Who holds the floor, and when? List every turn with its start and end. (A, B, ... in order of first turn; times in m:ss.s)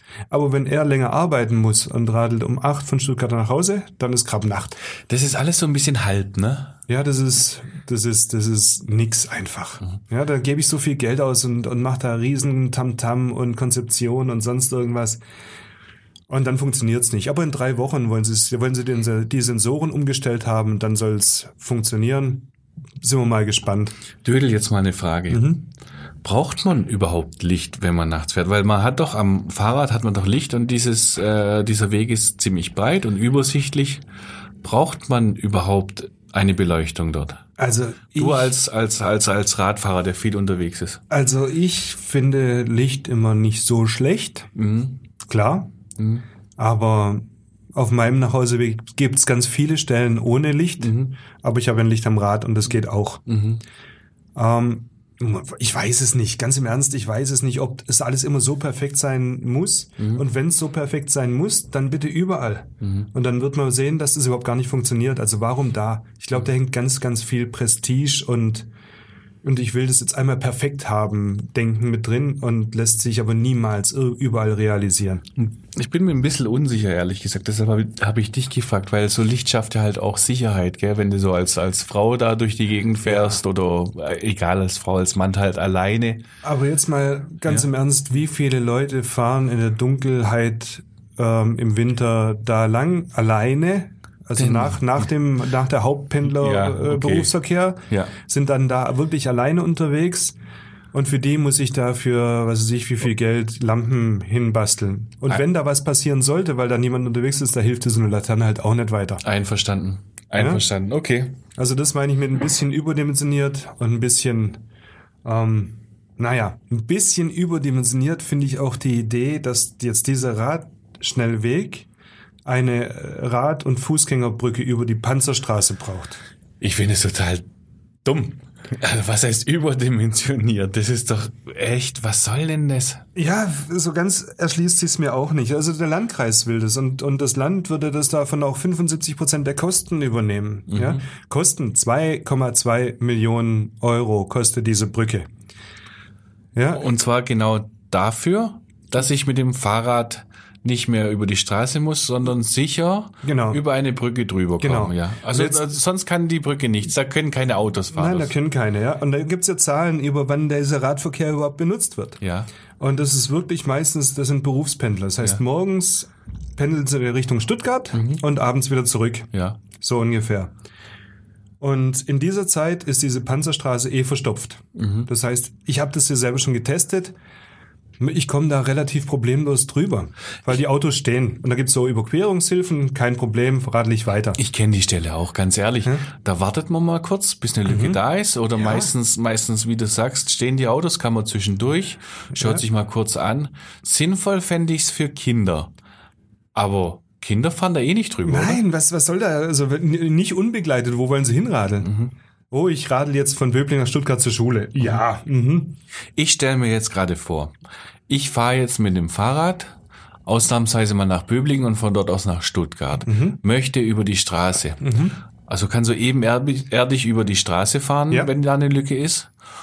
0:00.3-0:04.8 A
0:05.1-0:06.8 B
0:06.9-0:15.2 A
0:16.3-0:22.5 A
0:23.0-0:23.9 A
0:24.2-0:25.6 B
0:25.3-0:25.6 A
0:26.2-0:34.0 B
0:34.6-0:37.4 B
0:37.6-0:38.5 A
0:38.2-0:41.0 B
0:41.1-0:44.5 A
0:44.5-0:45.0 B
0:45.2-0:45.7 A
0:46.0-0:46.2 B
0:46.6-0:53.2 A
0:50.8-0:51.1 B
0:53.2-0:53.6 B
0:54.3-1:08.7 A
1:00.0-1:00.2 B
1:02.8-1:03.1 B
1:09.4-1:15.2 A
1:15.4-1:26.2 B
1:23.0-1:23.4 A
1:26.4-1:40.4 A
1:34.4-1:35.1 B
1:36.2-1:37.3 B
1:37.9-1:38.1 B
1:40.9-1:49.2 A
1:49.2-1:51.4 B
1:50.3-1:50.6 A
1:51.6-1:54.6 A
1:55.2-2:01.9 A
2:02.4-2:06.2 A
2:06.6-2:07.5 B
2:08.0-2:13.0 B
2:13.2-2:25.3 A
2:20.7-2:21.0 B
2:26.5-2:26.8 A
2:26.7-2:38.3 B
2:33.2-2:33.6 A
2:34.6-2:35.6 A
2:37.9-2:42.2 A
2:42.2-2:42.5 B
2:42.8-2:50.5 A
2:47.9-2:48.2 B
2:49.3-2:49.6 B
2:51.6-2:57.2 A
2:54.7-2:55.1 B
2:58.0-3:04.4 A
3:04.4-3:15.7 B
3:07.6-3:08.0 A
3:08.6-3:08.9 A
3:12.3-3:12.6 A
3:16.5-3:18.6 B
3:18.2-3:21.9 A
3:21.8-3:22.1 B
3:22.5-3:25.8 A
3:26.2-3:27.5 B
3:28.1-3:29.7 B
3:30.2-3:34.9 B
3:33.0-3:33.4 A
3:34.8-3:35.2 A
3:35.4-3:39.3 B